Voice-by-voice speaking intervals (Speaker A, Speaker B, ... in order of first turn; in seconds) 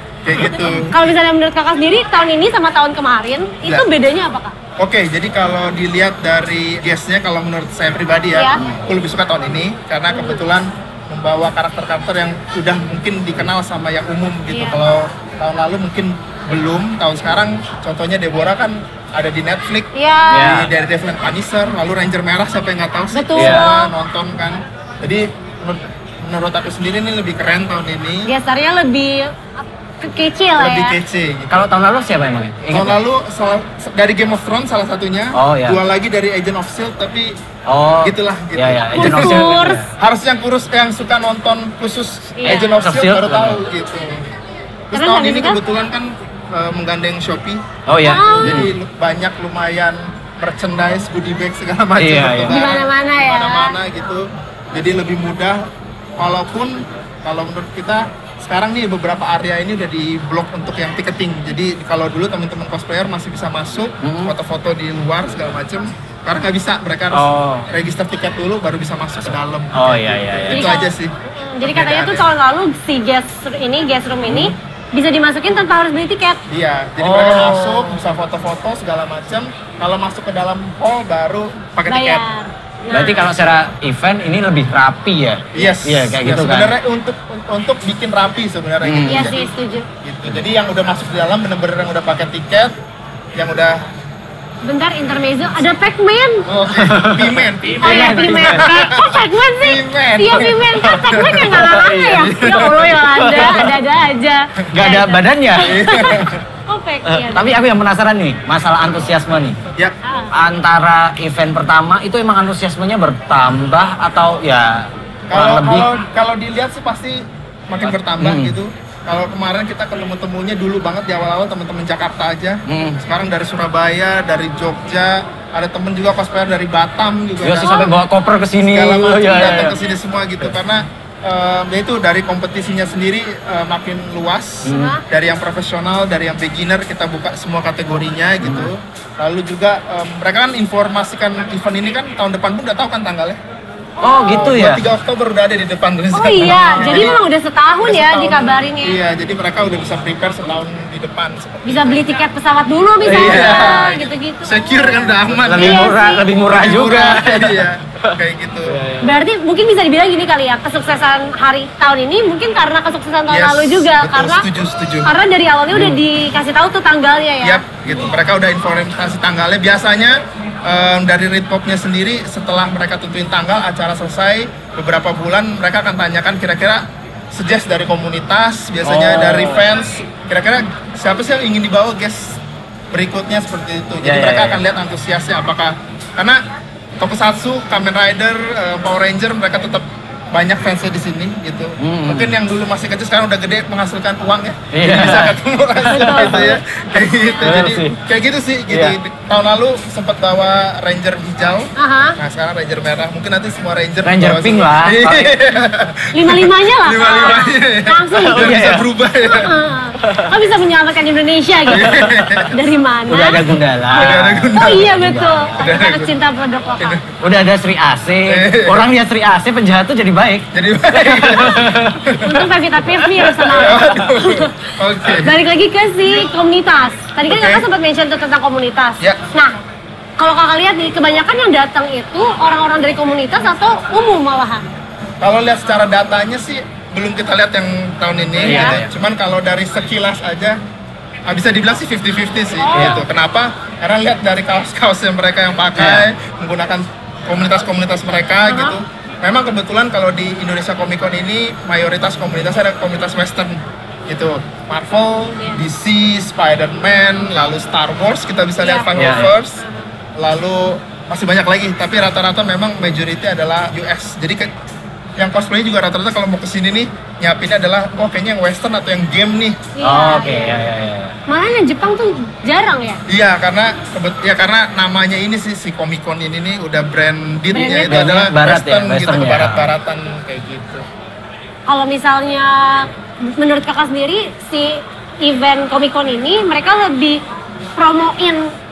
Speaker A: 0.2-1.1, 4.8-19.9, 20.4-28.3, 30.6-31.7, 32.7-37.4, 38.0-44.2, 44.9-47.6, 48.1-55.6, 56.2-72.2, 76.5-82.2, 85.5-89.5, 90.0-92.7, 93.3-93.8, 96.5-103.7, 105.6-106.4, 115.3-127.8, 128.6-143.4, 144.3-147.2, 147.8-152.2, 153.0-158.8, 163.3-165.1, 167.4-182.4, 182.9-186.4, 187.0-209.5, 211.7-212.5, 213.9-214.9, 215.6-216.2, 218.3-218.8, 220.5-222.4, 223.4-225.4, 227.3-227.6, 235.2-240.6, 241.3-259.6, 260.2-264.5, 265.2-269.7, 273.1-280.8
Speaker B: 0.9-4.5, 14.5-14.8, 19.9-20.5, 23.1-23.9, 28.3-31.0, 38.9-39.8, 42.4-42.7, 44.9-45.6, 48.0-48.6, 52.5-53.8, 70.5-76.4, 81.9-83.3, 89.1-89.9, 94.6-96.4, 97.8-107.5, 110.0-110.3, 127.6-127.9, 134.7-135.0, 144.0-144.4, 146.1-149.0, 151.6-156.3, 159.0-164.5, 165.0-167.6, 195.9-196.6, 201.8-202.2, 206.1-208.5, 209.2-211.9, 212.5-217.0, 222.2-224.5, 225.2-229.5, 230.2-234.6, 238.5-238.8, 242.6-243.0, 248.4-248.8, 258.6-259.2, 269.8-270.5, 271.3-273.0, 277.5-278.1, 281.7-287.2, 287.8-288.5
Speaker C: 20.3-20.7, 23.4-23.7, 31.5-33.0, 35.3-35.8, 37.7-39.8, 42.4-43.6, 47.9-48.7, 52.0-52.6, 64.0-64.3, 67.1-67.7, 69.7-70.7, 74.2-74.5, 77.0-78.0, 82.9-86.7, 88.8-89.3, 96.7-98.7, 101.6-102.5, 103.2-103.6, 104.7-105.9, 107.1-109.6, 110.3-115.9, 117.8-118.5, 122.7-123.0, 127.4-129.8, 134.7-134.9, 138.4-138.7, 144.0-144.8, 146.4-147.1, 153.0-153.8, 155.3-158.1, 158.7-159.1, 165.7-166.0, 178.8-179.7, 184.0-184.6, 191.8-192.3, 194.7-196.5, 197.4-198.0, 198.7-198.9, 204.0-205.3, 208.2-208.9, 211.8-212.4, 213.1-215.7, 217.2-222.0, 238.4-238.9, 242.7-243.0, 245.8-246.1, 258.9-259.3, 269.8-271.1, 277.6-279.7